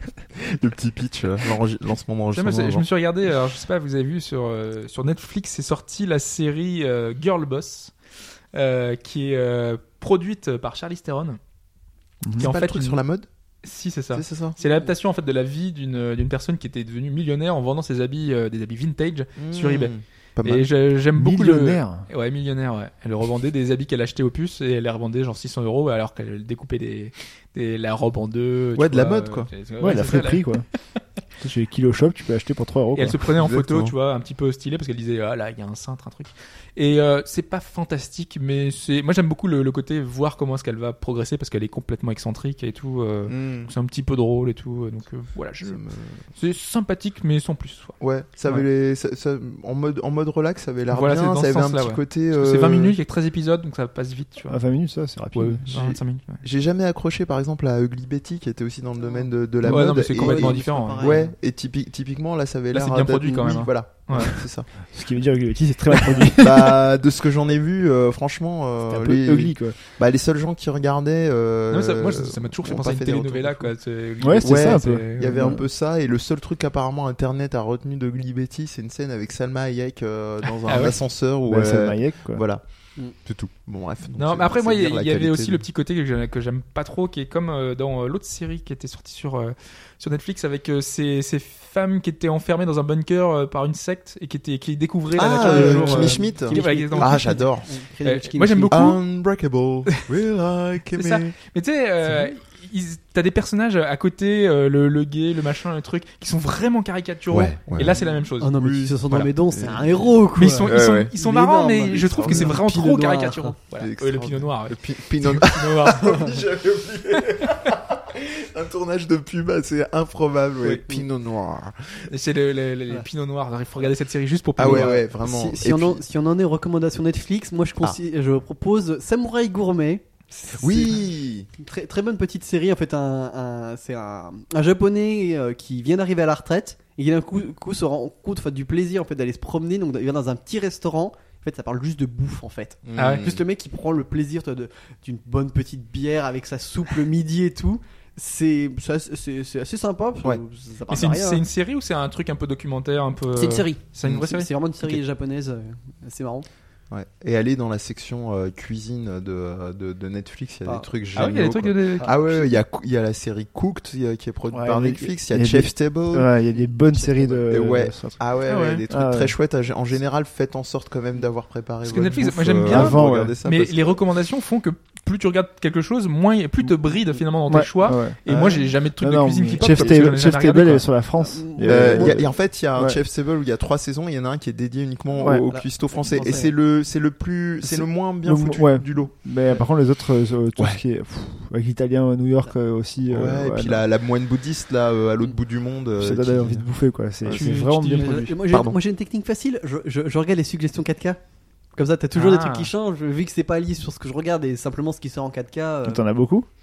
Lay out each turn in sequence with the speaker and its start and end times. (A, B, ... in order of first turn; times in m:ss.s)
0:00.6-0:02.9 A
0:02.3-0:07.9 B
0:08.5-0:11.4 B
0:12.2-0:12.5 C
0:12.4-0:13.3 A
0:12.4-0:13.0 B
0:13.6-0:30.6 B
0:14.1-0:14.6 A
0:19.4-0:20.7 A
0:21.2-0:22.1 C
0:28.8-0:29.6 A
0:29.8-0:30.7 C
0:31.4-0:33.2 C
0:33.0-0:45.8 B
0:33.3-0:34.0 A
0:43.3-0:43.7 A
0:45.6-0:46.3 A
0:46.4-0:48.7 B
0:48.0-0:53.0 A
0:50.9-0:54.7 B
0:54.5-0:55.7 C
0:55.3-0:56.4 B
0:55.7-1:04.7 A
0:59.0-0:59.3 D
0:59.6-1:01.2 B
0:59.7-0:59.9 C
1:00.2-1:01.3 D
1:02.7-1:04.5 B
1:04.8-1:06.8 C
1:06.4-1:13.8 A
1:08.9-1:09.8 C
1:11.7-1:15.6 B
1:14.2-1:15.6 C
1:14.4-1:25.6 A
1:20.6-1:21.0 B
1:21.4-1:22.4 C
1:24.2-1:39.0 B
1:35.2-1:37.7 A
1:35.3-1:38.9 D
1:38.7-1:41.4 A
1:40.9-1:48.6 B
1:47.3-1:49.0 A
1:48.4-1:53.6 D
1:49.5-1:50.2 A
1:50.4-1:56.2 B
1:50.7-1:51.1 A
1:52.0-1:52.6 A
1:53.8-2:01.7 A
2:02.1-2:05.0 B
2:04.6-2:06.0 A
2:04.6-2:31.4 D
2:10.6-2:11.5 A
2:22.8-2:23.4 A
2:23.0-2:23.3 B
2:30.9-2:35.0 B
2:33.3-2:36.5 D
2:36.9-2:46.3 A
2:40.6-2:41.2 D
2:41.1-2:42.1 B
2:42.0-2:42.6 D
2:44.5-2:48.3 C
2:46.5-2:47.5 D
2:47.5-2:54.0 A
2:48.5-2:48.8 B
2:48.9-2:49.4 C
2:51.8-3:00.9 B
2:52.6-2:53.4 C
2:57.5-3:03.0 C
2:59.6-3:00.0 A
3:01.2-3:02.3 D
3:01.6-3:09.1 A
3:05.2-3:05.5 C
3:05.2-3:06.5 D
3:07.6-3:13.8 C
3:10.6-3:10.8 A
3:13.0-3:16.7 A
3:16.0-3:18.4 C
3:17.3-3:18.3 B
3:17.9-3:21.2 D
3:18.5-3:18.8 A
3:21.7-3:26.0 D
3:22.1-3:22.7 B
3:25.8-3:26.5 C